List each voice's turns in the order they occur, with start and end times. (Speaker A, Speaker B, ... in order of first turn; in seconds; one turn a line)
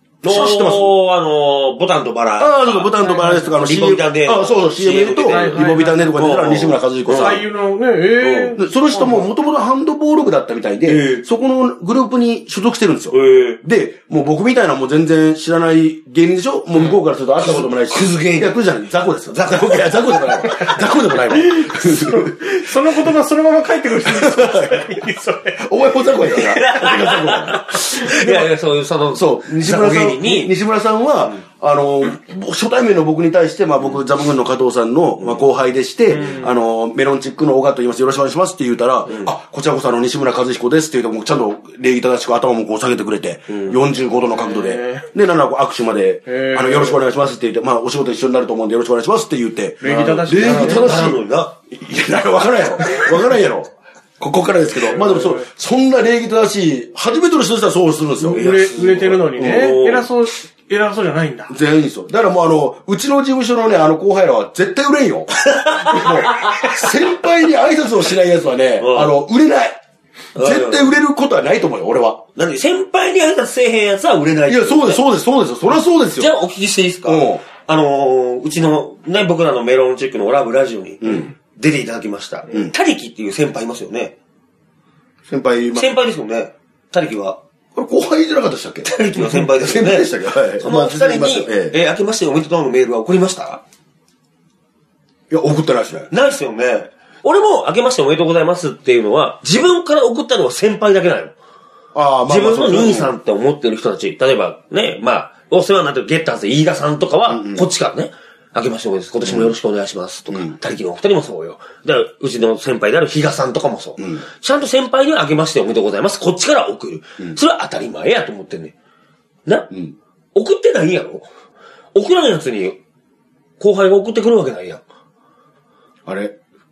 Speaker A: 0.2-3.0
Speaker B: 0.2-0.9
Speaker B: 2.4-7.5
Speaker C: 3.0-3.5
Speaker A: 3.6-7.4
Speaker C: 5.3-6.2
Speaker C: 7.1-9.3
Speaker A: 8.2-8.6
Speaker B: 8.6-22.4
Speaker A: 10.9-11.2
Speaker A: 13.1-13.6
Speaker A: 17.4-18.6
Speaker A: 19.3-20.8
Speaker C: 21.3-25.7
Speaker B: 24.1-25.0
Speaker B: 25.6-28.4
Speaker A: 26.3-30.5
Speaker B: 29.1-58.4
Speaker C: 36.1-36.5
Speaker A: 43.5-43.8
Speaker C: 44.4-45.1
Speaker C: 46.3-47.0
Speaker C: 49.8-51.1
Speaker A: 49.9-51.5
Speaker C: 55.0-55.5
Speaker C: 58.3-61.6
Speaker A: 58.3-60.1
Speaker B: 59.4-59.8
Speaker B: 61.5-69.8
Speaker A: 65.5-66.9
Speaker A: 68.8-69.2
Speaker A: 70.3-70.9
Speaker B: 70.4-72.2
Speaker A: 72.4-75.0
Speaker B: 74.5-76.3
Speaker A: 76.2-84.2
Speaker B: 77.0-77.4
Speaker B: 81.0-81.3
Speaker B: 85.3-85.9
Speaker A: 85.7-87.4
Speaker B: 87.8-91.8
Speaker A: 88.8-93.6
Speaker B: 95.3-96.1
Speaker A: 96.1-101.3
Speaker B: 102.0-103.1
Speaker A: 102.3-118.7
Speaker B: 107.3-107.7
Speaker B: 109.2-109.5
Speaker B: 110.3-110.6
Speaker B: 114.0-114.2
Speaker A: 120.3-121.3
Speaker A: 122.0-122.8
Speaker A: 123.6-124.8
Speaker B: 126.1-126.3